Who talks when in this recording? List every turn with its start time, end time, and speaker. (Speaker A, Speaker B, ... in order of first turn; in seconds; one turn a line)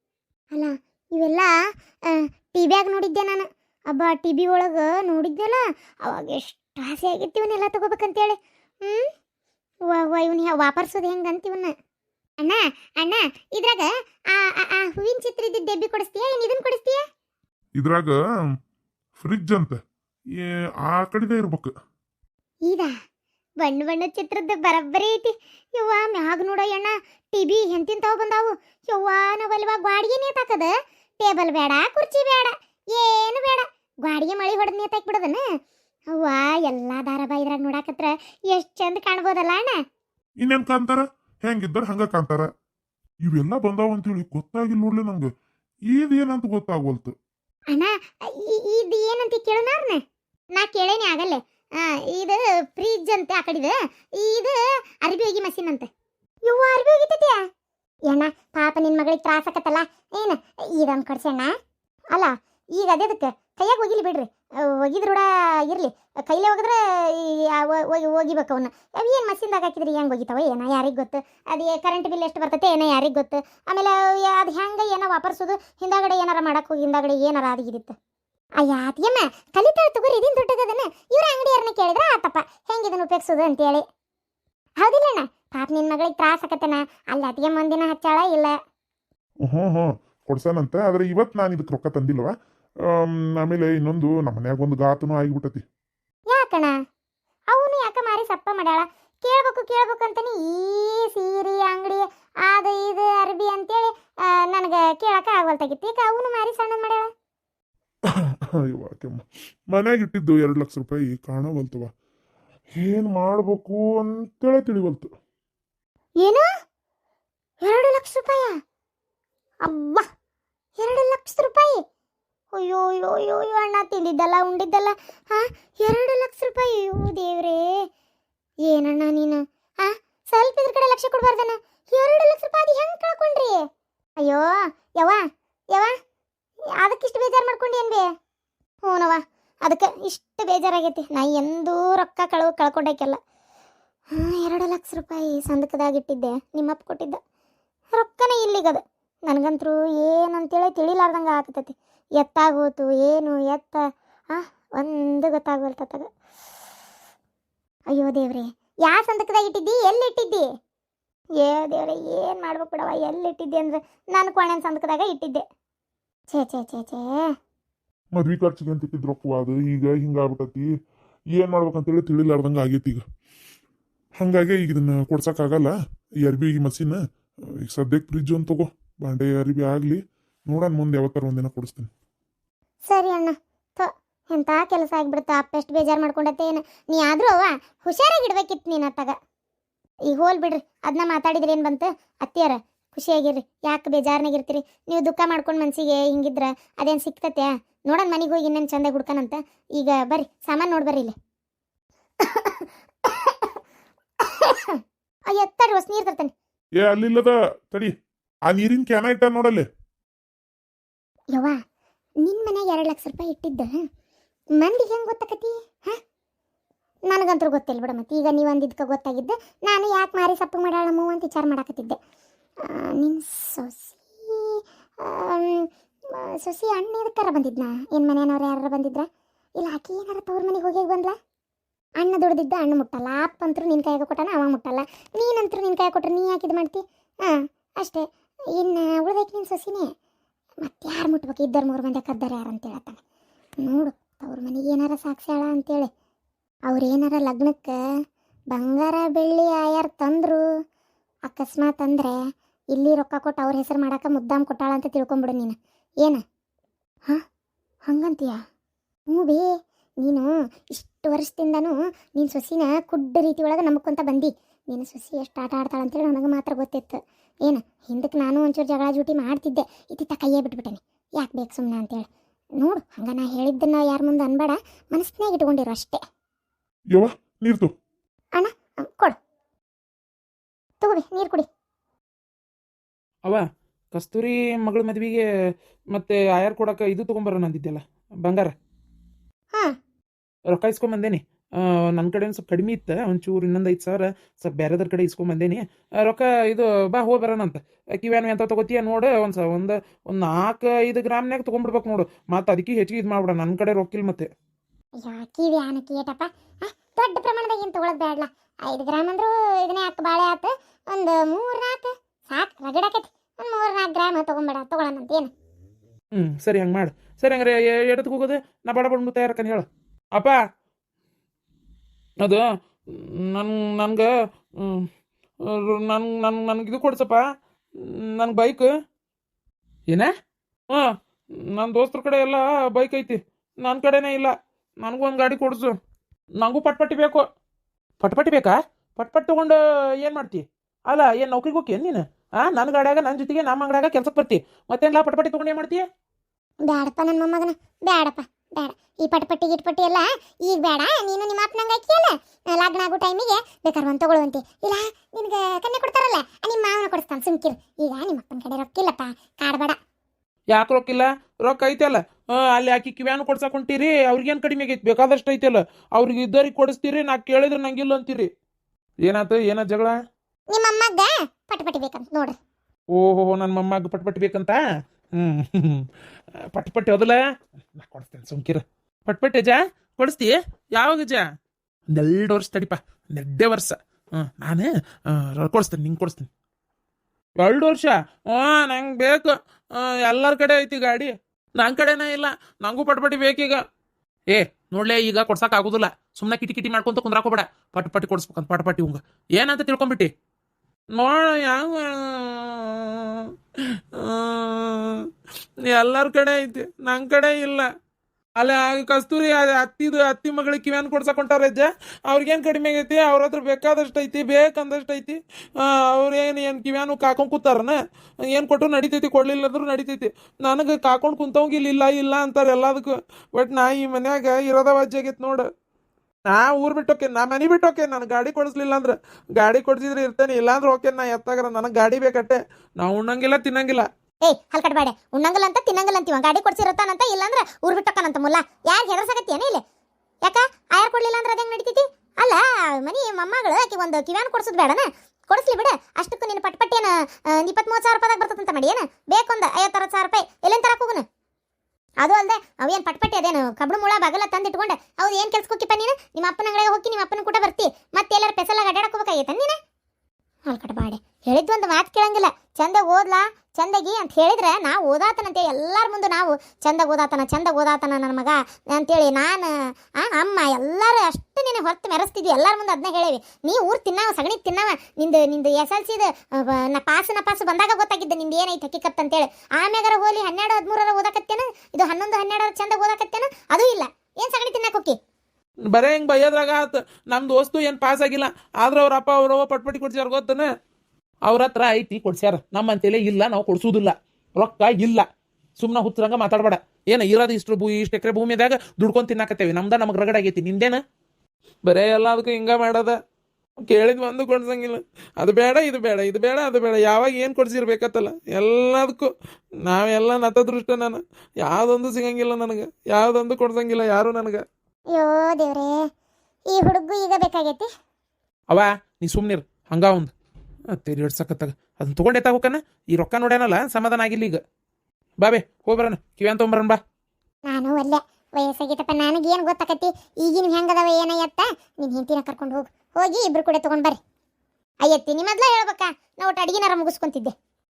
Speaker A: 0.5-1.5
Speaker A: 2.1-9.1
Speaker A: 9.9-11.7
Speaker A: 12.4-17.0
Speaker B: 17.8-18.2
Speaker B: 19.2-19.8
Speaker B: 20.4-21.7
Speaker A: 22.7-22.9
Speaker A: 23.6-35.4
Speaker A: 36.1-39.8
Speaker B: 40.4-42.5
Speaker B: 43.2-45.3
Speaker B: 45.9-47.1
Speaker A: 47.7-50.0
Speaker A: 50.5-55.9
Speaker A: 56.4-57.4
Speaker A: 58.1-61.5
Speaker A: 62.1-77.9
Speaker A: 78.6-83.8
Speaker A: 84.8-88.5
Speaker B: 89.4-92.3
Speaker B: 92.8-95.6
Speaker A: 96.3-96.7
Speaker A: 97.5-107.1
Speaker B: 108.5-111.9
Speaker B: 112.8-115.1
Speaker A: 116.2-116.5
Speaker A: 117.6-118.5
Speaker A: 119.6-120.0
Speaker A: 120.8-121.8
Speaker A: 122.5-127.6
Speaker A: 128.7-133.6
Speaker A: 134.2-134.5
Speaker A: 136.8-138.0
Speaker A: 138.8-143.2
Speaker A: 144.1-147.2
Speaker A: 147.9-153.8
Speaker A: 154.3-156.1
Speaker A: 157.9-160.4
Speaker A: 161.4-165.4
Speaker A: 166.3-167.2
Speaker B: 168.1-170.7
Speaker B: 171.3-173.0
Speaker B: 174.2-177.0
Speaker B: 177.6-181.9
Speaker A: 182.8-189.1
Speaker A: 190.1-201.1
Speaker A: 202.2-203.5
Speaker A: 204.2-206.3
Speaker B: 206.8-207.9
Speaker B: 208.5-209.6
Speaker A: 212.2-213.8
Speaker A: 214.6-216.0
Speaker A: 217.1-222.0
Speaker A: 222.6-229.1
Speaker A: 229.6-231.2
Speaker A: 232.0-238.0
Speaker A: 238.5-239.9
Speaker A: 240.6-243.0
Speaker A: 243.6-245.9
Speaker A: 246.7-247.8
Speaker A: 248.5-250.4
Speaker A: 251.3-252.2
Speaker A: 252.7-256.2
Speaker A: 257.9-258.4
Speaker A: 259.1-259.5
Speaker A: 260.0-272.1
Speaker A: 272.6-276.0
Speaker B: 276.9-277.7
Speaker A: 278.4-279.2
Speaker A: 280.8-281.5
Speaker C: 283.2-285.2
Speaker C: 285.9-288.5
Speaker C: 290.5-304.3
Speaker A: 305.0-315.3
Speaker C: 316.1-320.4
Speaker C: 322.2-324.1
Speaker C: 324.6-324.9
Speaker C: 325.4-327.2
Speaker C: 327.8-328.7
Speaker C: 331.5-335.8
Speaker C: 336.4-337.2
Speaker C: 338.0-345.8
Speaker A: 346.6-359.8
Speaker C: 360.5-368.3
Speaker C: 369.0-369.9
Speaker A: 370.5-372.4
Speaker C: 372.9-374.6
Speaker C: 375.2-375.9
Speaker C: 376.5-377.2
Speaker C: 377.7-381.2
Speaker C: 381.9-386.3
Speaker C: 387.4-393.6
Speaker C: 394.3-400.1
Speaker C: 400.9-403.3
Speaker C: 403.9-405.1
Speaker C: 405.6-407.7
Speaker C: 408.4-417.8
Speaker C: 418.3-425.5
Speaker C: 426.3-433.9
Speaker A: 434.2-439.6
Speaker A: 440.2-451.0
Speaker A: 452.0-459.6
Speaker A: 460.5-484.9
Speaker C: 485.7-490.5
Speaker C: 491.2-495.0
Speaker C: 495.6-500.8
Speaker C: 501.6-503.0
Speaker C: 503.6-509.1
Speaker C: 509.6-514.4
Speaker A: 514.9-515.8
Speaker A: 516.5-517.7
Speaker C: 518.5-520.1
Speaker C: 520.7-524.4
Speaker C: 525.2-526.8
Speaker A: 527.5-534.0
Speaker A: 534.8-537.3